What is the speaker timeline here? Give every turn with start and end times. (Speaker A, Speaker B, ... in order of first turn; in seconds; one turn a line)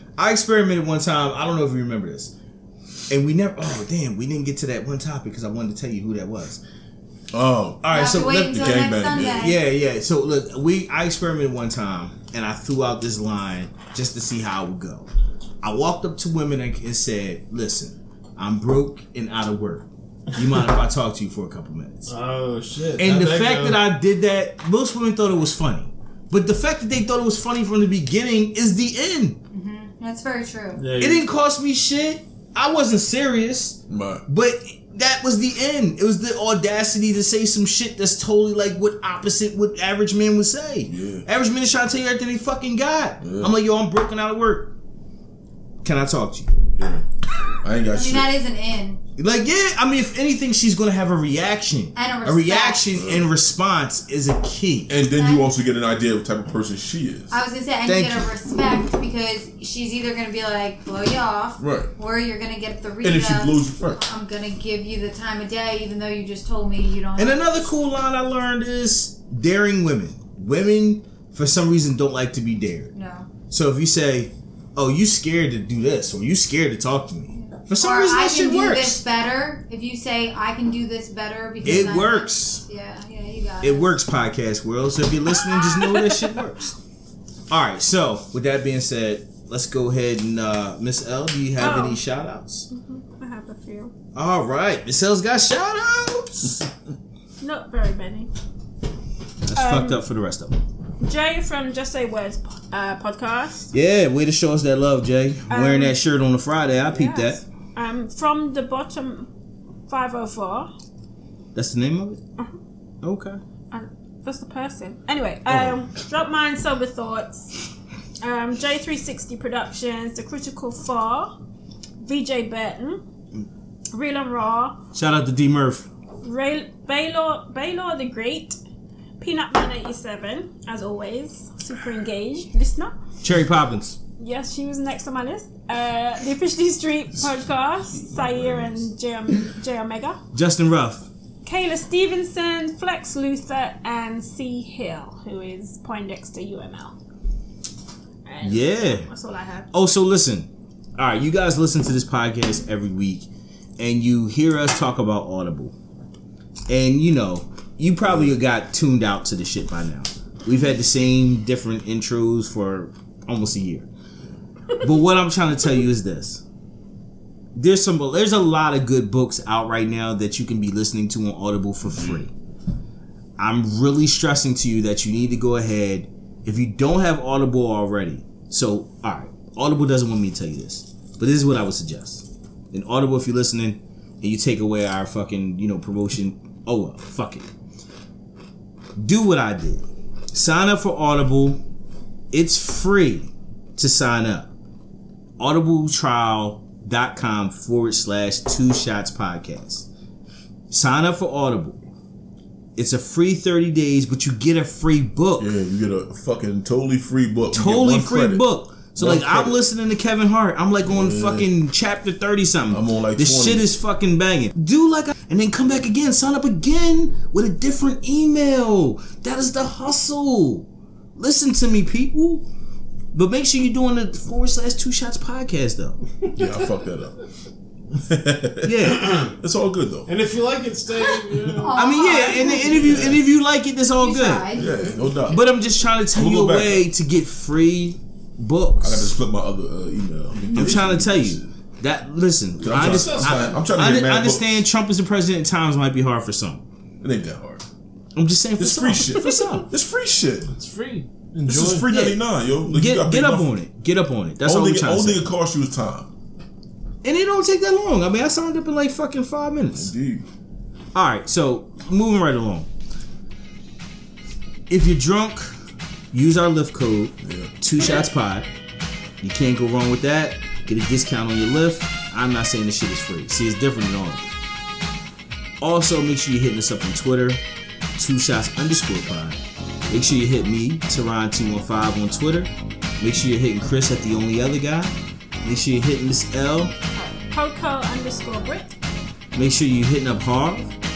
Speaker A: 0.2-2.3
Speaker A: 3.1-6.6
Speaker B: 7.3-9.6
Speaker A: 7.8-15.1
Speaker C: 7.9-9.6
Speaker A: 15.6-22.1
Speaker D: 22.1-23.8
Speaker A: 23.0-29.4
Speaker C: 29.5-30.8
Speaker D: 30.8-31.2
Speaker A: 31.0-44.7
Speaker B: 33.9-34.2
Speaker B: 40.9-41.3
Speaker B: 43.2-43.5
Speaker A: 45.8-46.6
Speaker B: 46.8-47.0
Speaker B: 47.6-48.3
Speaker C: 47.9-49.0
Speaker A: 49.2-54.9
Speaker C: 52.0-52.9
Speaker B: 52.9-53.3
Speaker B: 54.9-57.4
Speaker C: 55.1-55.5
Speaker C: 57.3-67.7
Speaker A: 57.9-58.3
Speaker B: 61.6-61.9
Speaker B: 63.0-64.0
Speaker A: 67.2-72.9
Speaker C: 72.9-73.3
Speaker A: 73.5-79.0
Speaker C: 77.3-83.9
Speaker A: 81.6-82.6
Speaker A: 83.6-86.7
Speaker E: 85.8-86.3
Speaker A: 87.5-92.7
Speaker E: 91.6-92.0
Speaker E: 92.7-93.9
Speaker A: 94.2-96.7
Speaker E: 97.4-98.3
Speaker A: 99.4-100.6
Speaker E: 99.6-100.0
Speaker E: 101.0-103.7
Speaker A: 103.7-107.4
Speaker E: 105.5-106.0
Speaker E: 106.9-109.3
Speaker E: 109.9-110.7
Speaker A: 111.5-112.2
Speaker A: 113.0-113.4
Speaker E: 113.7-117.6
Speaker A: 115.5-115.8
Speaker E: 118.2-121.3
Speaker E: 122.0-123.0
Speaker E: 123.9-124.8
Speaker A: 124.9-125.9
Speaker E: 126.2-128.6
Speaker E: 129.2-132.9
Speaker A: 133.2-134.0
Speaker E: 134.2-140.2
Speaker B: 137.9-138.8
Speaker A: 140.3-141.1
Speaker E: 141.4-146.9
Speaker E: 148.2-149.7
Speaker A: 148.4-149.1
Speaker A: 149.7-155.7
Speaker A: 156.7-163.9
Speaker A: 164.8-166.4
Speaker A: 167.6-172.3
Speaker A: 173.4-187.4
Speaker A: 189.0-191.6
Speaker A: 192.3-194.5
Speaker A: 195.4-199.9
Speaker A: 200.7-201.8
Speaker A: 202.8-205.5
Speaker B: 205.4-209.6
Speaker A: 207.5-222.4
Speaker B: 210.9-211.5
Speaker B: 212.7-213.7
Speaker A: 223.1-226.0
Speaker B: 226.3-227.2
Speaker B: 227.9-230.1
Speaker A: 228.6-229.2
Speaker D: 228.9-229.3
Speaker D: 230.1-233.1
Speaker B: 231.2-231.7
Speaker C: 231.6-233.0
Speaker A: 231.8-234.6
Speaker B: 232.8-233.2
Speaker C: 234.0-234.7
Speaker B: 234.6-235.4
Speaker A: 235.3-239.2
Speaker B: 236.1-236.9
Speaker B: 238.8-241.5
Speaker A: 240.5-246.6
Speaker B: 242.6-244.6
Speaker D: 242.7-243.7
Speaker B: 247.0-247.6
Speaker A: 248.2-249.7
Speaker B: 248.6-250.5
Speaker D: 250.5-251.9
Speaker B: 251.5-253.5
Speaker A: 251.9-255.3
Speaker B: 254.4-256.1
Speaker A: 257.0-259.9
Speaker B: 259.7-260.3
Speaker A: 260.9-262.7
Speaker A: 264.7-265.6
Speaker A: 266.1-268.5
Speaker B: 267.2-267.5
Speaker A: 269.2-274.3
Speaker A: 275.6-277.4
Speaker A: 278.0-284.9
Speaker A: 285.4-286.7
Speaker E: 287.2-288.7
Speaker A: 289.4-290.7